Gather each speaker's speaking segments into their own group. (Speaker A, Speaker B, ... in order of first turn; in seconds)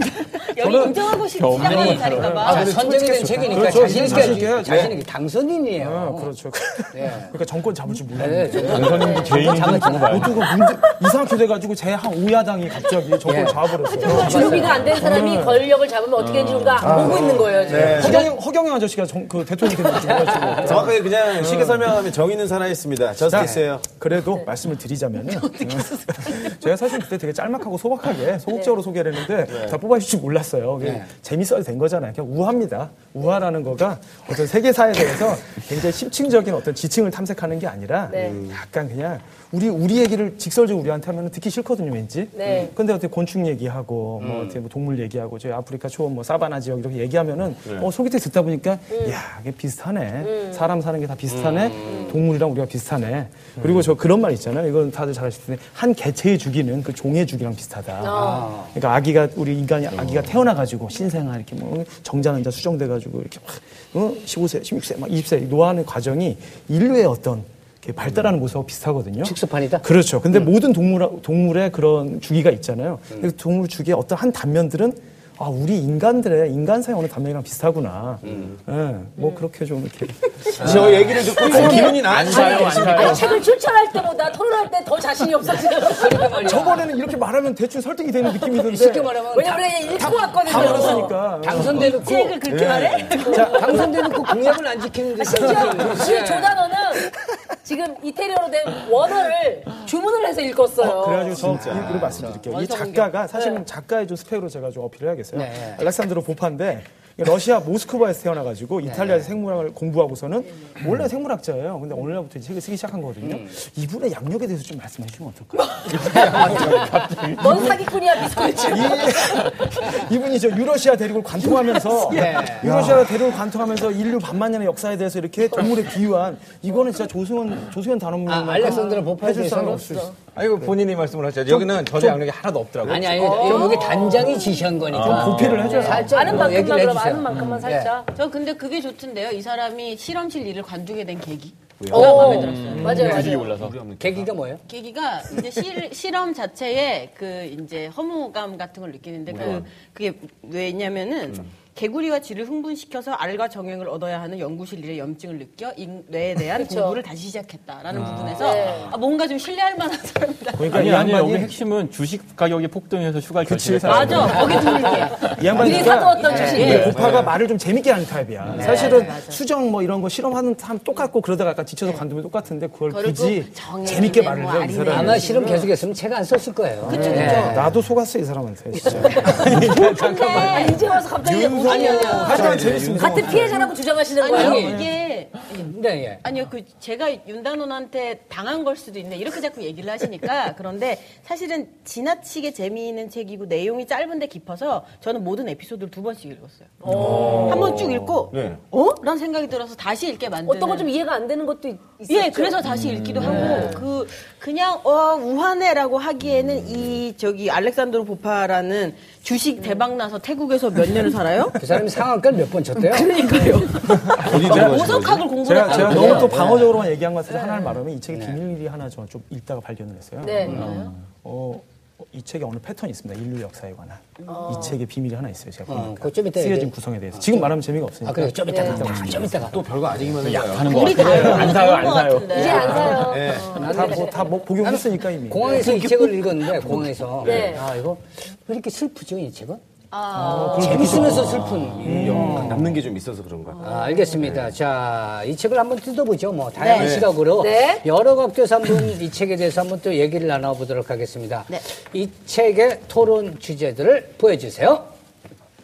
Speaker A: 0.4-2.9, 13.8-14.8, 25.3-26.7, 90.6-91.0, 91.8-94.1, 102.5-103.6, 138.1-143.5, 144.7-160.8, 163.9-165.2, 166.2-166.9, 168.6-169.4, 172.9-175.7, 176.8-177.6, 179.3-180.8, 184.2-200.9, 202.1-211.6, 212.8-216.4, 217.3-217.7, 220.5-220.9, 230.6-233.0, 243.6-244.3, 246.6-247.0
Speaker B: 0.6-4.9, 5.8-15.7, 16.8-22.0, 23.3-81.9, 86.4-89.2, 90.0-92.1, 93.2-93.9, 100.8-116.2, 117.4-117.8, 118.6-130.7, 131.5-132.2, 133.4-134.0, 134.9-136.3, 160.6-161.6, 163.4-175.3, 176.8-183.8, 184.4-184.9, 214.0-214.9, 215.4-220.6, 221.2-229.5, 233.5-236.0, 240.1-242.7
Speaker C: 0.9-4.4, 8.7-10.5, 16.1-17.1, 81.3-83.4, 115.9-117.8, 134.8-136.7, 137.3-137.7, 142.1-143.8, 157.9-158.8, 160.7-165.9, 166.5-167.3, 196.9-198.2, 202.6-203.8, 220.4-221.0, 230.1-233.2, 241.0-242.3
Speaker D: 1.6-6.3, 6.9-7.3, 8.1-10.4, 13.2-14.9, 17.5-18.2, 20.1-20.8, 23.3-23.6, 30.8-31.1, 44.2-44.6, 51.3-52.2, 58.1-58.7, 69.2-69.8, 78.2-78.5, 80.6-81.1, 85.8-86.8, 88.5-92.3, 93.3-96.7, 101.8-102.3, 105.3-105.8, 108.8-109.3, 113.2-113.5, 122.1-123.0, 128.2-130.1, 132.8-137.9, 142.8-143.4, 144.0-144.6, 158.0-158.8, 166.3-166.9, 168.5-169.1, 174.9-177.8, 181.6-182.5, 184.3-184.8, 185.6-186.2, 211.6-213.5, 215.6-216.8, 218.1-218.4, 220.5-220.7, 225.7-229.6, 233.4-239.6, 240.2-242.6, 243.6-254.9
Speaker E: 4.5-4.9, 8.5-9.3, 16.8-18.3, 20.6-23.9, 29.5-29.8, 38.1-38.6, 80.6-83.3, 92.5-93.2, 100.8-102.4, 116.2-116.8, 141.8-144.3, 149.3-149.7, 166.9-167.3, 181.2-183.7, 196.9-197.5, 198.3-198.6, 206.4-207.0, 214.1-215.3, 229.4-231.2, 232.9-233.6, 235.4-237.6, 241.8-244.5, 246.8-247.2
Speaker F: 14.1-18.3, 38.1-38.4, 42.3-42.7, 50.2-50.6, 51.8-52.2, 58.0-58.5, 81.4-86.5, 89.3-91.2, 95.2-97.1, 97.6-101.5, 117.3-119.5, 133.2-134.6, 135.6-138.1, 141.9-143.4, 156.5-157.0, 158.4-158.9, 164.3-166.9, 179.3-184.8, 196.8-197.5, 200.4-202.6, 203.2-203.8, 220.2-220.6, 224.3-224.8, 228.5-228.8, 232.3-234.3, 237.2-237.6, 239.9-241.0, 247.3-247.8
Speaker G: 130.3-133.4